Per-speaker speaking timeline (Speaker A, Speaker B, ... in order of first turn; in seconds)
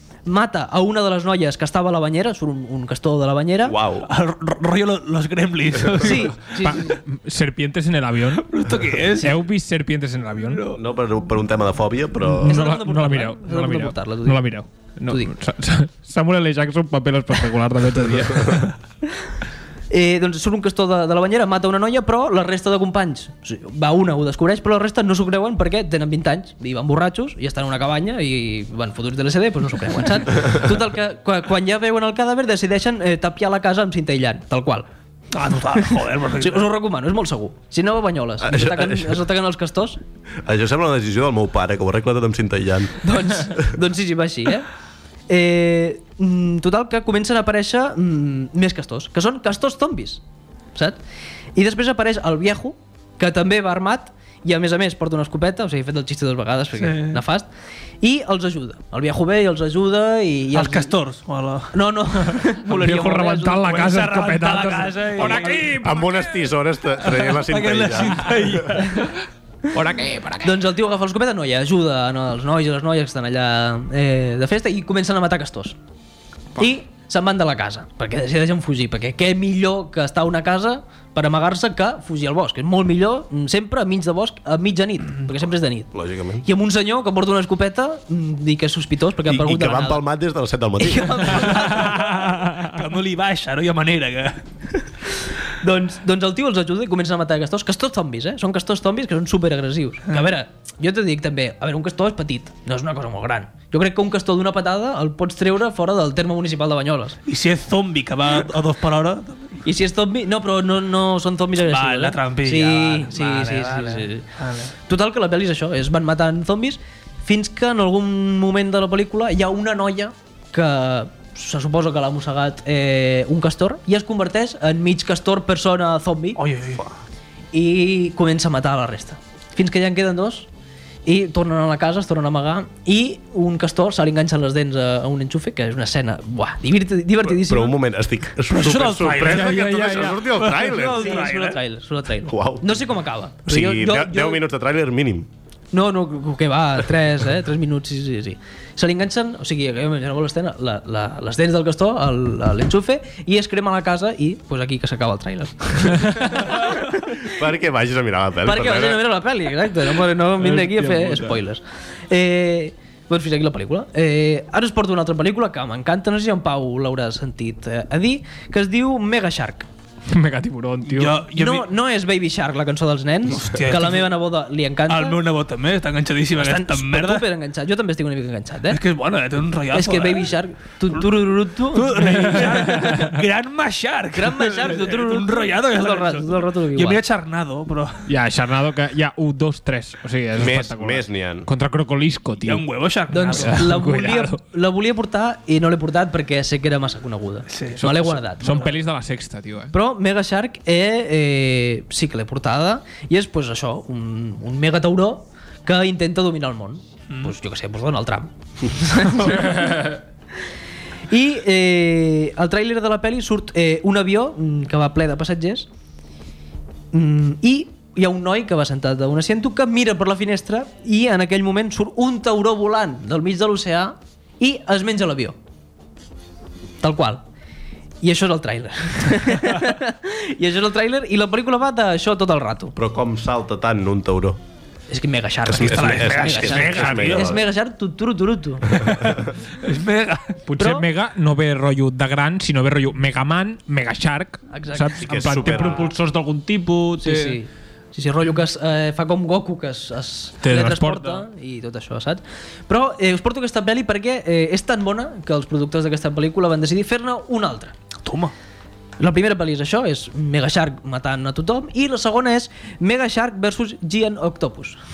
Speaker A: 0.3-3.8, 6.0-7.0, 12.4-14.5, 15.1-15.3, 19.9-34.9, 35.8-40.0, 43.0-44.7, 45.3-50.2, 51.5-57.5, 58.0-60.9, 61.7-64.1, 65.2-65.6, 68.7-69.1, 70.4-75.8, 76.6-85.9, 86.5-90.0, 90.8-92.1, 95.6-107.2, 109.6-114.2, 114.9-126.4, 127.5-130.5, 131.1-137.8, 140.7-144.4, 145.7-157.3, 158.4-169.7, 171.3-175.2, 176.4-178.8, 179.7-182.9, 184.1-187.0, 193.1-198.7, 199.7-210.0, 211.1-215.7, 216.9-225.4, 226.8-227.2, 228.0-232.8, 234.9-239.2, 240.6-240.8, 244.5-245.8, 247.0-257.7, 259.0-264.8
Speaker B: 3.6-4.1, 10.7-12.7, 38.4-39.2, 40.4-43.6, 65.8-68.8, 85.9-86.5, 89.3-91.6, 137.3-141.2, 142.3-142.8, 143.4-145.3, 157.2-159.1, 190.3-191.5, 232.8-234.4, 235.4-237.5, 238.7-239.3, 245.0-245.9
Speaker C: 4.1-6.8, 8.4-9.4, 10.4-10.8, 35.3-36.7, 56.8-57.2, 60.5-61.7, 63.7-65.8, 67.0-69.0, 91.3-94.4, 107.3-109.6, 111.6-114.7, 126.4-126.9, 138.5-141.6, 170.9-171.7, 173.3-174.2, 174.9-177.3, 178.7-180.3, 181.7-188.1, 192.4-193.7, 197.5-197.8, 235.5-237.4, 239.6-240.4, 258.1-258.3
Speaker D: 6.6-8.5, 9.2-10.7, 12.3-18.8, 62.7-66.4, 69.7-70.6, 139.2-140.3, 160.4-161.4, 170.1-171.2, 182.0-183.1, 188.1-192.6, 193.4-194.4, 197.8-199.8, 240.5-247.4, 250.4-251.2